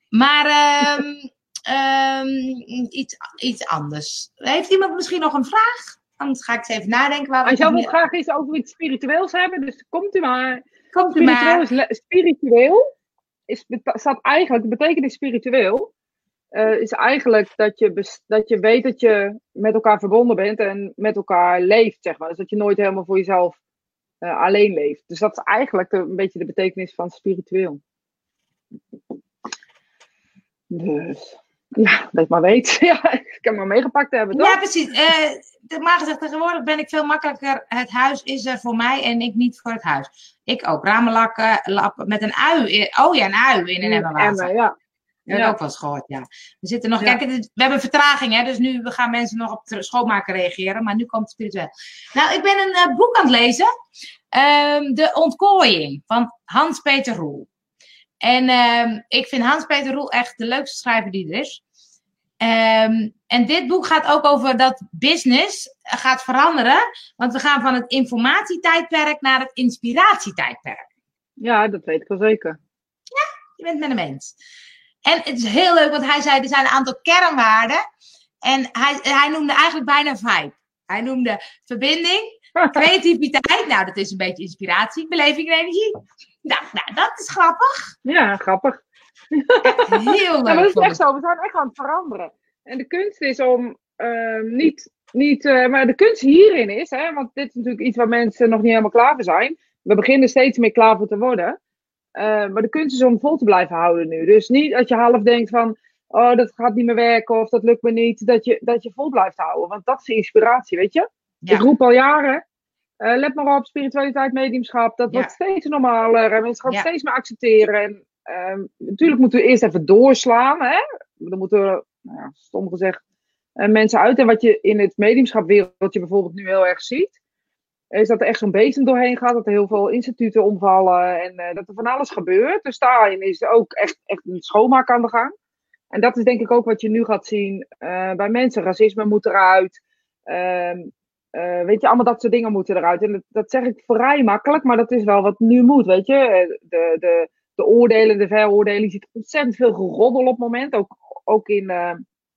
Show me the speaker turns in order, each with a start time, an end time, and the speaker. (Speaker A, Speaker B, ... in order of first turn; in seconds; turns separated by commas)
Speaker A: 0.1-7.9, Speaker B: 7.5-12.8, Speaker A: 10.9-11.6, Speaker B: 13.5-15.9, Speaker B: 16.5-23.6, Speaker B: 24.2-27.8, Speaker B: 30.7-34.6, Speaker A: 34.3-44.5, Speaker B: 43.8-44.7, Speaker A: 45.3-53.7, Speaker B: 45.3-45.6, Speaker A: 54.3-57.5, Speaker A: 58.2-61.6, Speaker A: 62.4-70.9, Speaker B: 71.4-72.6, Speaker A: 73.1-74.3, Speaker A: 75.0-77.8, Speaker A: 78.4-87.9, Speaker B: 88.0-88.8, Speaker B: 89.3-101.6, Speaker A: 89.7-91.0, Speaker B: 102.2-112.4, Speaker B: 113.0-123.0, Speaker B: 123.6-127.2, Speaker B: 127.9-135.3, Speaker B: 135.9-152.0